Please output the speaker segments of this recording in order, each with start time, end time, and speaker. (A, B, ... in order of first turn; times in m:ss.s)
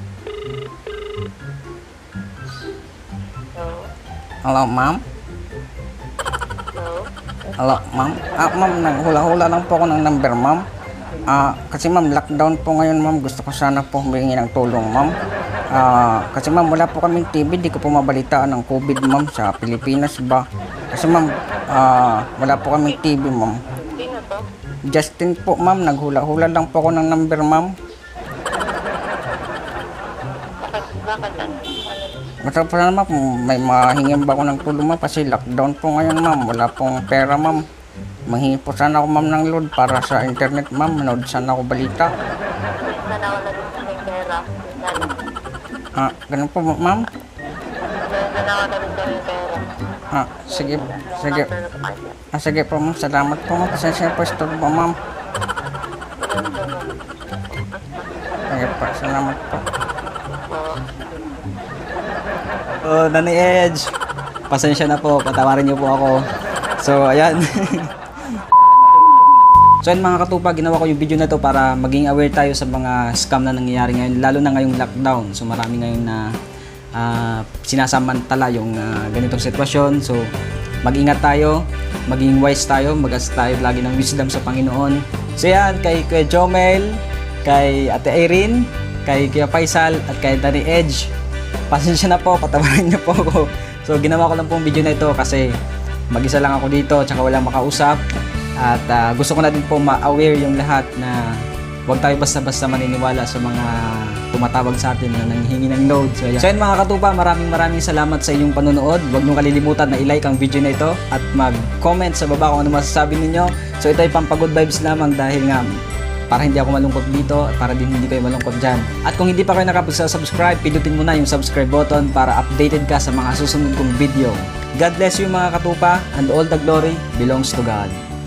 0:03.6-0:03.9 A
0:04.5-0:05.0 B
0:06.7-0:07.7 A
0:07.6-0:10.6 B
0:11.3-0:15.2 B
0:15.7-0:23.6 B
0:24.0-0:24.5 A
0:24.9-0:27.7 B
0:30.6-0:32.2 A
0:32.4-0:37.6 B
0:38.3-0:42.1 B
0:42.8-0:45.3 A
0:46.0-0:47.1 B
0:48.0-0:49.7 A
0:50.1-0:51.5 B
0:50.5-0:52.2 A
0:52.3-0:54.9 B
0:56.2-0:58.1 A
0:58.5-0:59.6 B
1:00.5-1:00.8 A
1:02.8-1:03.9 C
1:04.5-1:06.3 C
1:06.8-1:07.9 C
1:09.8-1:16.3 C
1:17.0-1:20.3 C
1:20.8-1:31.1 C
1:31.7-1:35.5 C
1:36.1-1:38.0 C
1:38.6-1:41.2 C
1:41.9-1:55.6 C
1:56.3-2:08.0 C